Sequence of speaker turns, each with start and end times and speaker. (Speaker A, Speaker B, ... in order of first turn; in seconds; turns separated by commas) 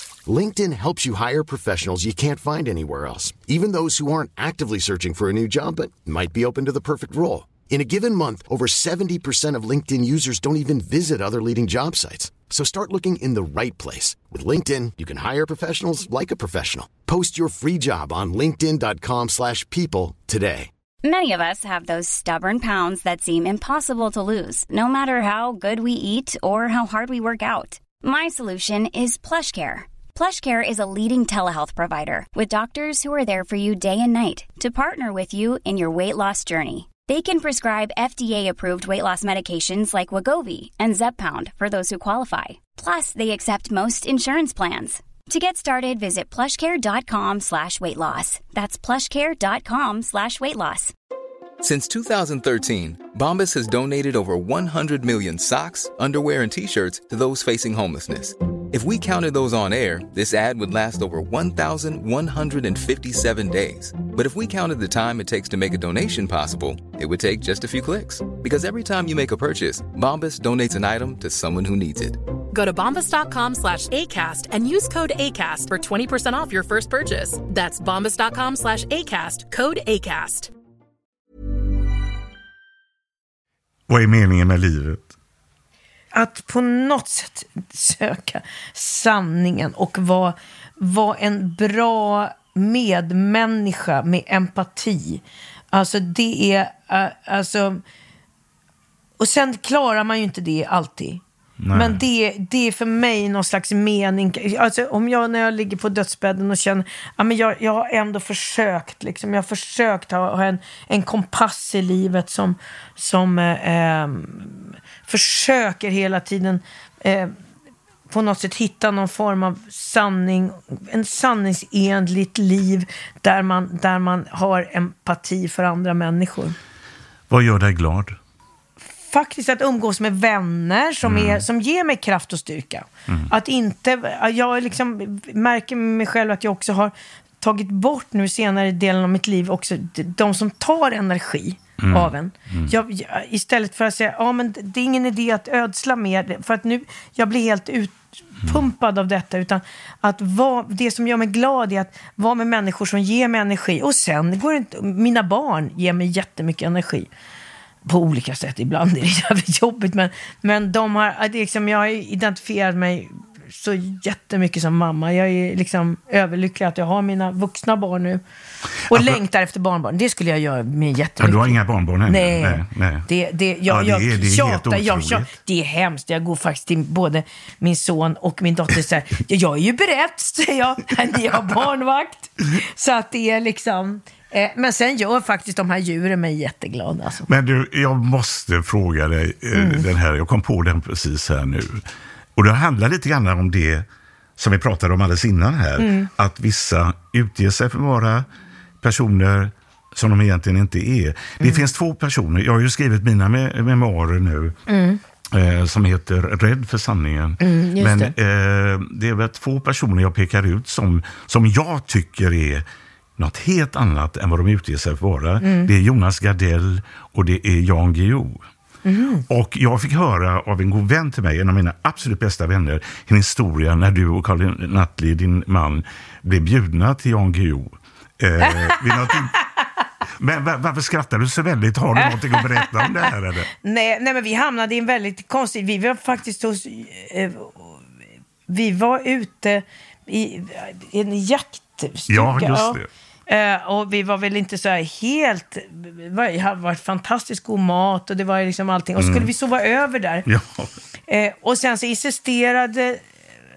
Speaker A: 0.2-20.7, Speaker B: 21.0-50.9, Speaker C: 51.6-72.2, Speaker D: 72.5-80.5, Speaker E: 83.9-85.1, Speaker F: 86.1-97.8, Speaker F: 99.2-117.3, Speaker E: 101.6-102.0, Speaker F: 118.1-126.5, Speaker E: 127.3-128.2, Speaker F: 129.1-157.1, Speaker E: 131.0-131.4, Speaker E: 141.8-142.7, Speaker F: 157.8-168.2, Speaker E: 168.8-169.2, Speaker F: 168.9-187.3, Speaker E: 171.2-173.1, Speaker E: 173.7-175.3, Speaker E: 187.3-191.8, Speaker F: 189.5-189.9, Speaker E: 192.3-198.3, Speaker F: 195.8-196.1, Speaker E: 198.8-204.6, Speaker F: 201.4-201.6, Speaker F: 204.7-205.0, Speaker E: 205.3-212.6, Speaker F: 207.4-208.1, Speaker E: 213.2-218.4, Speaker F: 215.4-215.7, Speaker F: 218.8-219.2, Speaker E: 219.3-229.3, Speaker F: 228.4-229.1, Speaker E: 230.2-233.5, Speaker F: 231.9-232.9, Speaker F: 233.6-237.7, Speaker F: 238.5-250.2, Speaker E: 242.1-242.9, Speaker E: 249.0-249.3, Speaker E: 250.2-250.7, Speaker F: 251.1-253.0